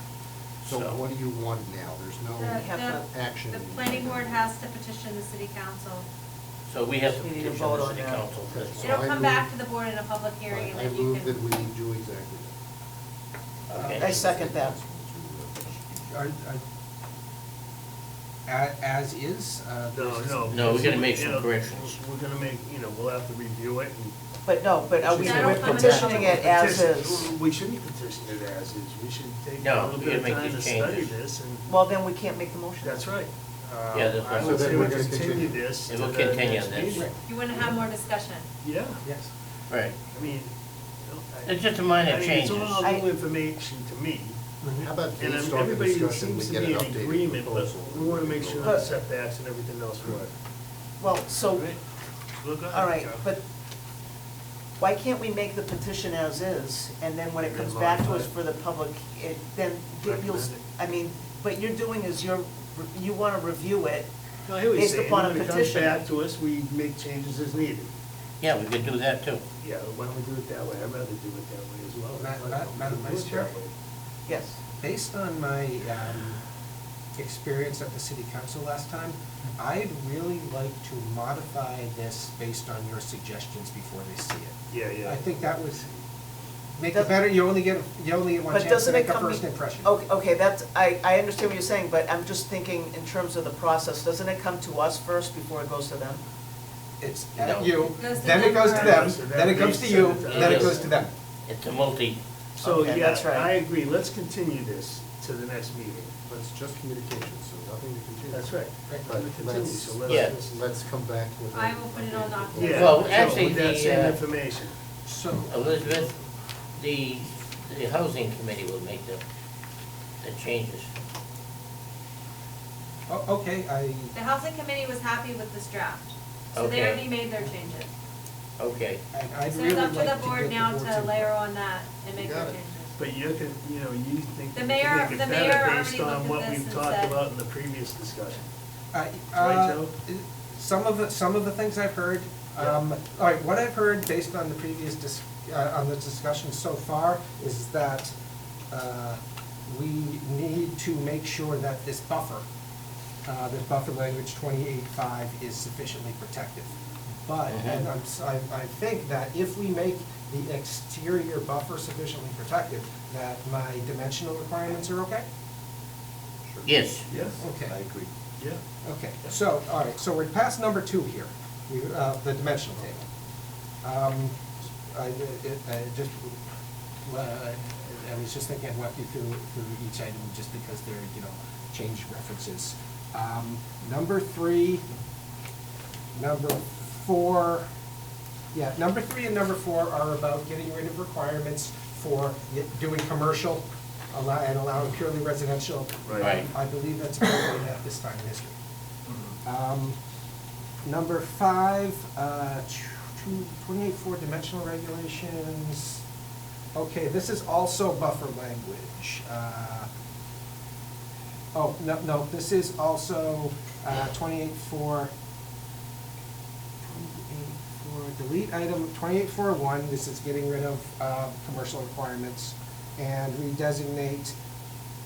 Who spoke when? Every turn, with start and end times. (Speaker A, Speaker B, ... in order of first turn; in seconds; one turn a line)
Speaker A: 0.6-4.5
Speaker B: 0.7-1.0
Speaker C: 2.4-6.1
Speaker D: 2.5-3.0
Speaker B: 6.7-9.0
Speaker D: 7.2-8.7
Speaker A: 8.7-9.5
Speaker C: 8.8-11.4
Speaker A: 10.5-12.5
Speaker B: 13.7-14.1
Speaker E: 13.7-14.0
Speaker A: 13.7-15.9
Speaker D: 14.0-14.7
Speaker E: 15.9-16.6
Speaker E: 18.5-21.4
Speaker F: 19.9-24.1
Speaker B: 20.5-21.8
Speaker D: 24.4-27.3
Speaker F: 25.0-31.7
Speaker C: 25.1-26.4
Speaker B: 29.6-31.1
Speaker D: 31.7-33.1
Speaker F: 32.8-37.1
Speaker B: 33.9-34.8
Speaker A: 34.4-35.7
Speaker B: 35.9-37.0
Speaker C: 37.2-38.5
Speaker F: 38.6-39.0
Speaker E: 39.0-39.3
Speaker B: 39.7-40.0
Speaker F: 40.1-40.5
Speaker F: 41.0-44.6
Speaker B: 41.4-42.8
Speaker D: 42.8-43.1
Speaker A: 44.6-48.9
Speaker F: 45.2-50.3
Speaker D: 48.6-48.9
Speaker D: 51.0-51.7
Speaker F: 51.4-51.8
Speaker F: 52.4-53.3
Speaker D: 52.7-53.4
Speaker D: 54.8-64.1
Speaker F: 57.4-58.4
Speaker F: 60.0-60.6
Speaker F: 64.5-67.9
Speaker D: 64.7-66.0
Speaker B: 68.4-69.4
Speaker F: 69.6-73.7
Speaker E: 72.2-73.5
Speaker D: 74.3-74.6
Speaker E: 74.8-76.4
Speaker E: 77.2-85.9
Speaker F: 84.7-85.2
Speaker E: 86.8-89.9
Speaker D: 88.5-96.2
Speaker E: 97.0-101.1
Speaker B: 97.4-97.7
Speaker C: 97.9-99.0
Speaker F: 98.6-100.9
Speaker B: 100.3-100.8
Speaker B: 101.5-102.2
Speaker F: 102.6-106.2
Speaker D: 102.6-103.5
Speaker A: 106.2-113.3
Speaker F: 108.3-110.6
Speaker B: 110.1-110.3
Speaker C: 111.5-113.0
Speaker F: 112.6-114.7
Speaker B: 112.7-114.2
Speaker E: 115.0-116.1
Speaker B: 115.5-116.1
Speaker B: 116.8-119.2
Speaker B: 120.2-120.9
Speaker E: 123.1-124.1
Speaker C: 124.1-127.9
Speaker B: 126.5-127.1
Speaker B: 128.6-129.0
Speaker E: 129.1-131.3
Speaker C: 129.5-133.0
Speaker A: 132.2-132.6
Speaker F: 133.0-138.5
Speaker C: 134.5-137.2
Speaker E: 138.9-148.1
Speaker F: 139.3-139.9
Speaker E: 148.7-152.4
Speaker E: 153.2-156.7
Speaker E: 157.2-165.2
Speaker B: 157.5-157.8
Speaker B: 166.6-167.1
Speaker F: 167.1-167.5
Speaker E: 167.4-167.8
Speaker A: 167.6-168.1
Speaker E: 168.8-173.1
Speaker E: 173.8-176.4
Speaker E: 177.0-184.8
Speaker E: 186.1-187.7
Speaker E: 188.5-198.5
Speaker F: 196.1-196.4
Speaker B: 196.2-196.5
Speaker F: 199.1-199.3
Speaker E: 199.4-200.0
Speaker E: 200.8-206.0
Speaker E: 206.7-209.9
Speaker E: 211.5-215.1
Speaker E: 216.8-224.3